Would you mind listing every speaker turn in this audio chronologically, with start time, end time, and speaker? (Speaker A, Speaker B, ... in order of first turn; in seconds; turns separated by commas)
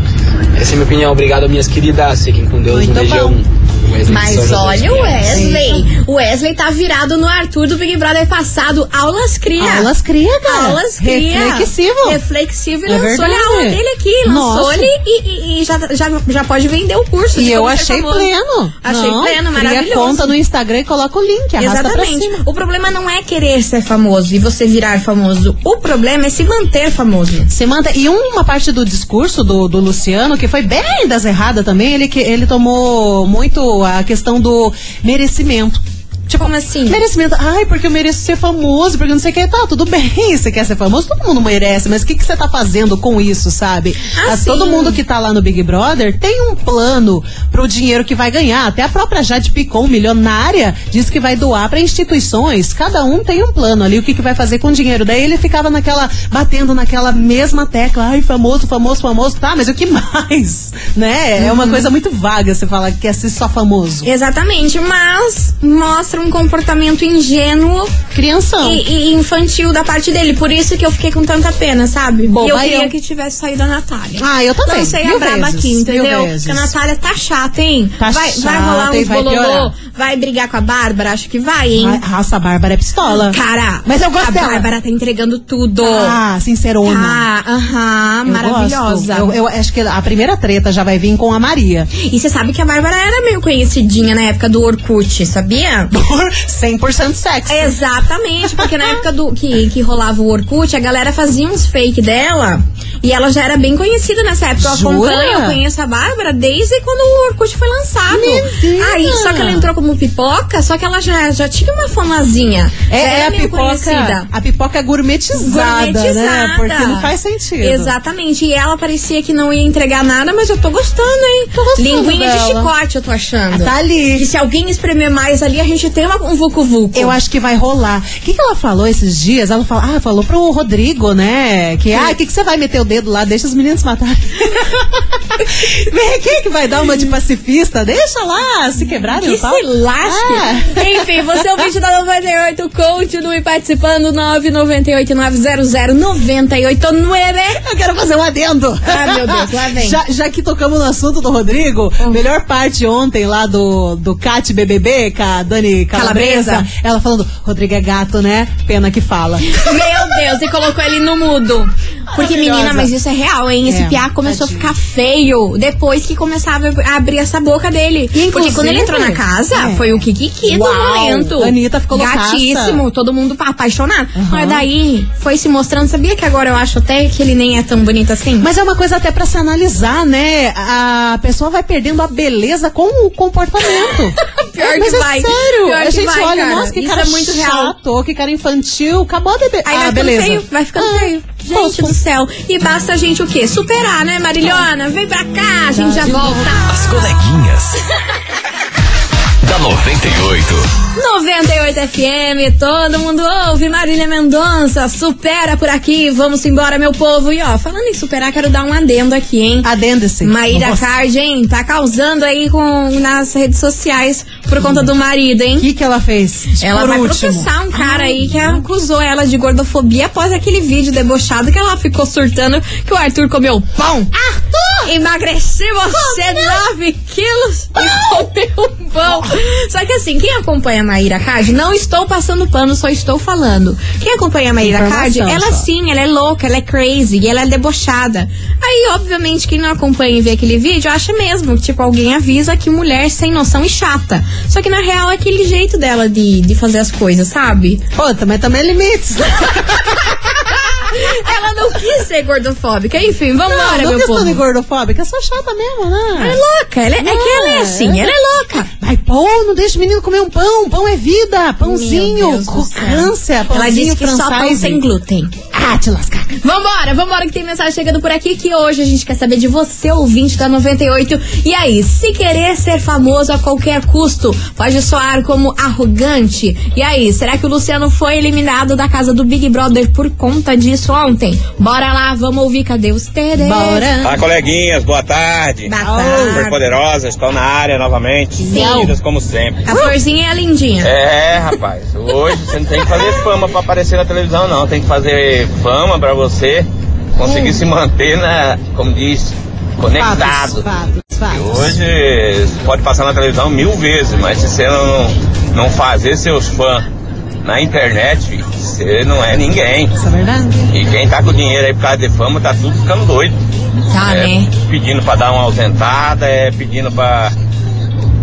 Speaker A: 0.5-5.4, Speaker B: 2.7-3.4, Speaker C: 4.0-9.9, Speaker B: 5.2-5.9, Speaker B: 9.6-12.2, Speaker C: 10.4-20.4, Speaker B: 12.8-14.9, Speaker B: 17.3-22.4, Speaker C: 21.6-27.5, Speaker B: 27.5-64.1, Speaker C: 36.4-37.0, Speaker C: 44.1-45.0, Speaker C: 61.4-61.9, Speaker C: 64.0-68.0, Speaker B: 68.1-68.8, Speaker C: 68.6-82.0, Speaker B: 72.3-72.9, Speaker B: 74.2-76.7, Speaker B: 78.0-79.7, Speaker B: 81.8-84.7, Speaker C: 83.1-86.2, Speaker B: 85.8-87.3, Speaker C: 86.8-89.3, Speaker B: 88.2-91.9, Speaker C: 92.0-95.9, Speaker B: 95.9-97.8, Speaker C: 97.5-114.3, Speaker B: 98.6-98.9, Speaker B: 104.6-105.6, Speaker B: 108.1-109.7, Speaker B: 112.9-117.9, Speaker C: 115.3-127.2, Speaker B: 121.5-122.7, Speaker B: 123.5-124.3, Speaker B: 126.9-141.6, Speaker C: 139.2-147.6, Speaker B: 147.6-160.1, Speaker C: 148.8-150.0, Speaker C: 155.9-156.7, Speaker C: 159.4-178.5, Speaker B: 162.1-162.9, Speaker B: 163.6-164.7, Speaker B: 168.1-172.8, Speaker B: 174.1-174.7, Speaker B: 178.4-192.0, Speaker C: 184.2-187.7, Speaker C: 189.6-196.8, Speaker B: 194.4-194.7, Speaker B: 195.7-196.6, Speaker D: 196.6-197.8, Speaker D: 199.4-200.7, Speaker C: 200.9-209.7, Speaker B: 209.6-210.9, Speaker C: 210.2-215.7, Speaker B: 214.6-214.9, Speaker B: 215.6-218.7, Speaker C: 216.6-224.1, Speaker B: 224.1-224.9, Speaker C: 224.8-247.8, Speaker B: 225.9-226.7, Speaker B: 227.8-228.2, Speaker B: 229.0-229.4, Speaker B: 234.6-235.7, Speaker B: 247.9-251.8, Speaker C: 250.7-254.4, Speaker B: 253.4-256.4, Speaker C: 256.1-258.7, Speaker B: 257.0-264.8, Speaker C: 261.6-265.3, Speaker B: 265.5-266.3, Speaker C: 266.4-283.9, Speaker B: 283.4-284.2, Speaker E: 284.0-289.8, Speaker C: 285.7-286.6, Speaker B: 285.8-286.5, Speaker B: 288.4-288.9, Speaker C: 288.5-288.9, Speaker C: 289.6-290.9, Speaker B: 289.7-289.9, Speaker E: 290.8-300.7, Speaker B: 297.2-297.6, Speaker B: 299.9-301.7, Speaker E: 301.3-306.8, Speaker E: 307.4-310.0, Speaker B: 310.0-310.7, Speaker E: 310.7-313.4, Speaker C: 313.9-314.5, Speaker E: 314.0-317.3